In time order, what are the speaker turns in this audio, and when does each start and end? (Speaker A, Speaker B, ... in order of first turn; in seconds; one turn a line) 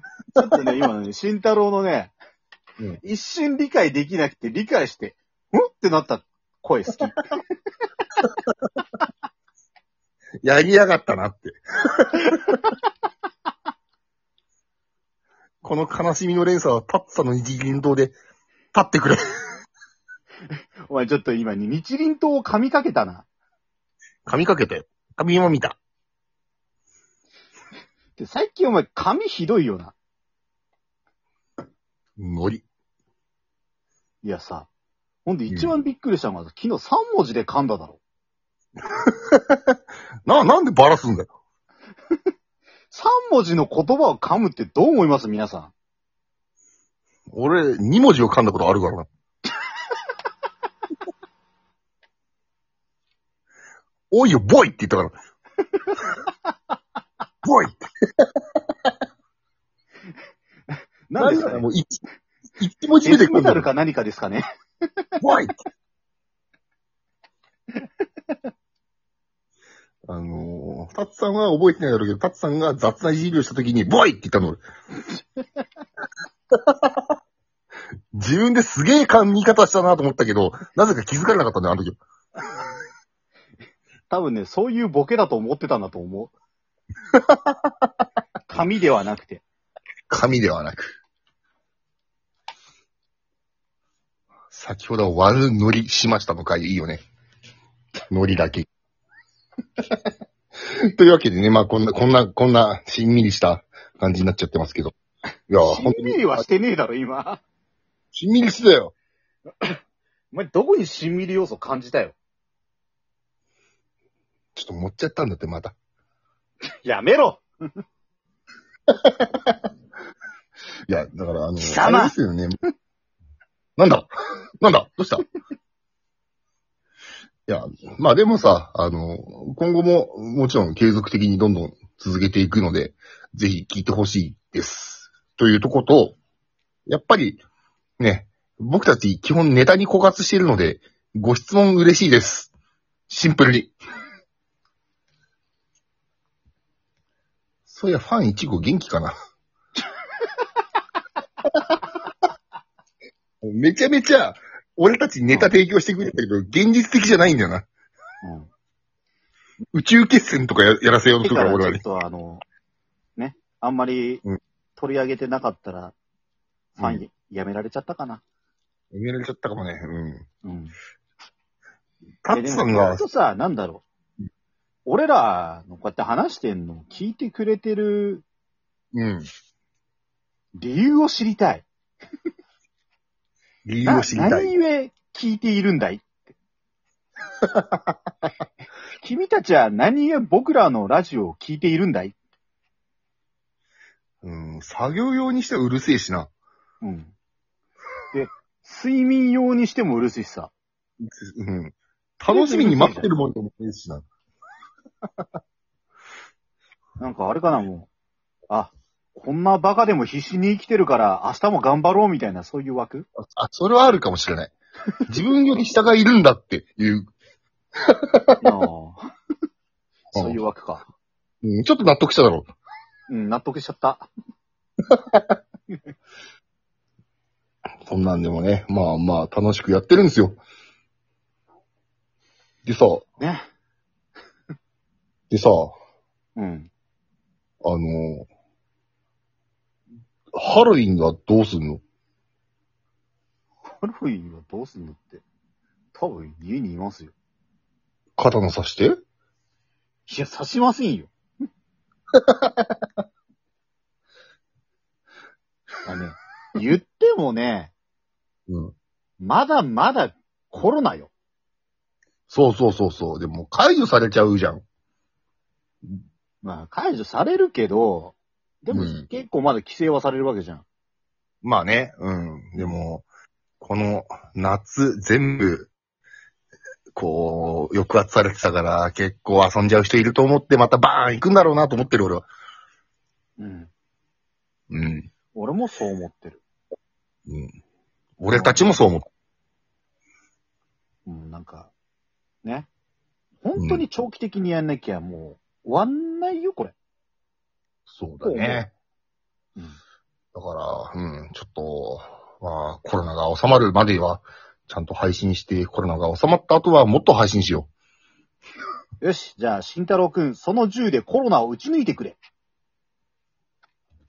Speaker A: 0.4-2.1
Speaker A: 3.0-7.4
Speaker B: 10.4-12.7
Speaker B: 15.6-18.1
Speaker B: 18.7-19.2
Speaker A: 20.9-23.2
Speaker B: 24.2-25.8
Speaker A: 28.2-29.9
Speaker B: 32.2-32.6
Speaker A: 34.2-34.7
Speaker A: 35.2-38.0
Speaker B: 38.9-41.3
Speaker A: 42.9-45.7
Speaker B: 47.3-49.1
Speaker B: 54.1-55.1
Speaker A: 55.8-56.3
Speaker B: 57.5-58.3
Speaker A: 61.1-61.6
Speaker B: 61.2-62.0
Speaker B: 62.6-63.7
Speaker A: 63.0-65.2
Speaker B: 65.2-65.5
Speaker B: 70.1-74.6
Speaker B: 76.5-77.1
Speaker B: 78.1-82.0
Speaker A: 84.1-86.3
Speaker B: 87.2-87.5
Speaker A: 88.5-89.4
Speaker B: 90.1-91.0
Speaker B: 94.5-97.0
Speaker B: 98.1-98.7
Speaker B: 100.8-105.0
Speaker B: 105.5-106.4
Speaker A: 105.6-107.4
Speaker B: 108.1-108.9
Speaker A: 110.3-112.2
Speaker B: 114.5-115.8
Speaker A: 116.8-117.4
Speaker B: 118.9-119.6
Speaker B: 120.9-122.6
Speaker A: 121.6-122.2
Speaker B: 123.8-125.2
Speaker B: 127.5-136.2
Speaker B: 136.9-137.4
Speaker B: 138.0-142.5
Speaker B: 143.1-143.7
Speaker B: 147.7-149.1
Speaker B: 153.4-157.7
Speaker A: 158.2-158.5
Speaker B: 159.7-161.8
Speaker A: 161.2-162.4
Speaker A: 163.2-164.2
Speaker A: 164.8-165.9
Speaker A: 166.7-168.2
Speaker B: 166.8-167.0
Speaker B: 168.9-170.2
Speaker A: 170.4-170.8
Speaker B: 172.2-173.1
Speaker A: 172.3-173.8
Speaker A: 174.9-178.2
Speaker B: 178.9-179.3
Speaker A: 180.6-181.7
Speaker B: 183.6-184.5
Speaker A: 183.8-186.2
Speaker B: 187.5-187.8
Speaker A: 189.0-192.1
Speaker B: 194.2-196.3
Speaker A: 196.8-197.1
Speaker A: 198.1-200.5
Speaker B: 201.0-204.1
Speaker A: 202.3-203.1
Speaker A: 207.0-207.9
Speaker A: 208.5-213.1
Speaker B: 213.2-214.5
Speaker B: 215.1-217.1
Speaker B: 217.8-218.4
Speaker A: 218.4-219.1
Speaker A: 220.1-220.9
Speaker B: 221.4-222.5
Speaker A: 223.1-224.1
Speaker B: 224.9-225.3
Speaker B: 227.9-230.4
Speaker B: 232.6-233.1
Speaker A: 233.2-233.4
Speaker B: 235.3-235.8
Speaker A: 236.4-236.7
Speaker B: 237.6-238.3
Speaker B: 240.3-241.8
Speaker A: 243.7-245.2
Speaker A: 245.9-247.1
Speaker B: 248.2-249.0
Speaker A: 250.1-251.1
Speaker B: 252.1-252.8
Speaker A: 255.9-257.7
Speaker B: 258.5-258.7
Speaker A: 259.2-261.1
Speaker B: 262.3-264.6
Speaker A: 266.4-270.6
Speaker B: 268.7-269.1
Speaker B: 271.4-273.1
Speaker B: 273.6-275.7
Speaker B: 276.9-282.3
Speaker A: 283.4-283.7
Speaker B: 284.7-285.1
Speaker A: 285.3-286.4
Speaker B: 287.3-287.5
Speaker B: 288.2-289.1
Speaker A: 288.3-288.7
Speaker A: 291.1-291.7
Speaker A: 293.4-296.7
Speaker B: 293.6-293.9
Speaker B: 297.9-298.7
Speaker A: 298.2-298.6
Speaker B: 300.3-307.7
Speaker A: 309.0-312.2